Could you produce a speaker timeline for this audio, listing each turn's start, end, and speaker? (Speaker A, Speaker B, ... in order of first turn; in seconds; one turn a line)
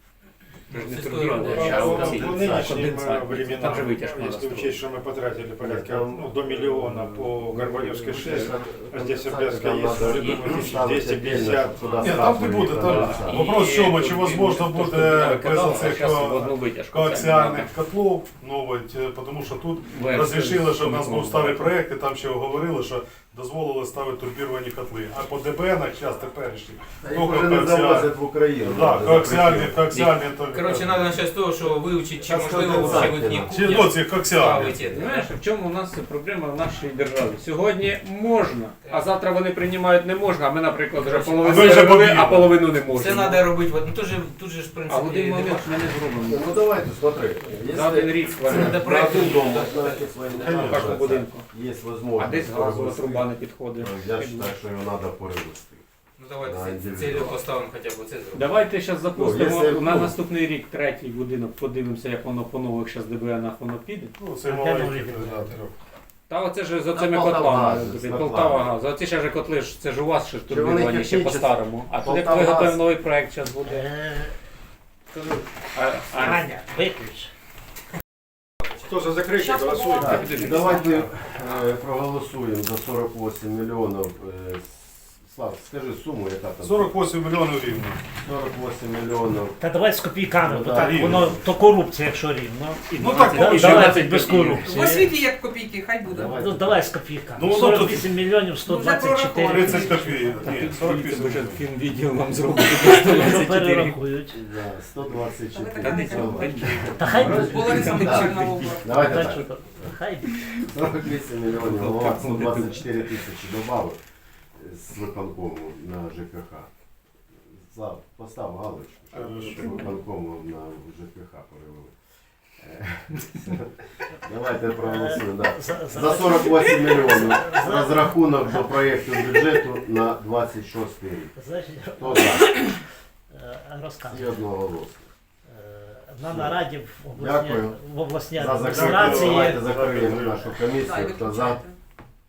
Speaker A: 0.7-4.8
Speaker B: 0.7-2.4
Speaker C: 1.6-2.9
Speaker D: 1.6-12.3
Speaker C: 5.6-13.4
Speaker A: 10.0-10.9
Speaker B: 11.7-12.1
Speaker E: 12.0-28.1
Speaker A: 13.1-17.7
Speaker A: 19.9-21.7
Speaker C: 27.0-29.8
Speaker E: 28.6-31.1
Speaker B: 29.9-35.2
Speaker C: 32.2-33.6
Speaker A: 32.7-33.1
Speaker E: 33.5-34.8
Speaker A: 34.8-43.5
Speaker B: 38.8-39.1
Speaker B: 40.9-41.9
Speaker E: 41.4-42.5
Speaker B: 42.9-45.9
Speaker A: 44.9-46.5
Speaker C: 46.2-55.8
Speaker A: 47.4-48.9
Speaker B: 48.4-50.8
Speaker A: 50.4-51.5
Speaker A: 52.1-54.5
Speaker B: 56.2-58.6
Speaker C: 56.4-57.4
Speaker A: 58.3-64.1
Speaker C: 59.1-60.2
Speaker E: 64.1-65.7
Speaker F: 64.4-65.6
Speaker A: 66.3-73.9
Speaker C: 66.9-68.8
Speaker C: 70.5-72.8
Speaker F: 73.7-74.4
Speaker C: 75.1-75.4
Speaker A: 75.7-76.5
Speaker F: 76.2-77.3
Speaker B: 78.6-79.1
Speaker D: 78.9-80.4
Speaker G: 79.4-80.9
Speaker C: 80.0-87.0
Speaker A: 80.0-81.1
Speaker B: 81.3-81.7
Speaker E: 86.6-88.0
Speaker C: 88.2-89.6
Speaker F: 89.6-95.1
Speaker C: 90.4-91.5
Speaker E: 90.7-91.3
Speaker A: 92.9-94.7
Speaker E: 92.9-94.0
Speaker G: 94.7-96.4
Speaker C: 96.1-96.9
Speaker F: 96.3-100.2
Speaker E: 97.3-98.1
Speaker G: 98.6-100.5
Speaker E: 99.5-101.6
Speaker A: 100.4-104.0
Speaker F: 102.8-104.4
Speaker C: 104.3-109.9
Speaker G: 105.3-106.5
Speaker A: 105.8-109.6
Speaker F: 107.0-108.1
Speaker G: 107.3-109.0
Speaker F: 109.0-110.3
Speaker A: 110.3-110.6
Speaker C: 110.6-114.0
Speaker A: 111.5-113.1
Speaker C: 114.5-116.7
Speaker C: 117.4-121.9
Speaker E: 119.1-119.9
Speaker C: 122.6-131.3
Speaker F: 124.7-128.7
Speaker F: 131.3-134.4
Speaker C: 132.0-132.7
Speaker C: 134.1-135.1
Speaker F: 135.5-139.6
Speaker C: 136.2-136.6
Speaker C: 137.2-137.8
Speaker C: 138.3-141.6
Speaker E: 138.6-140.6
Speaker G: 140.7-141.8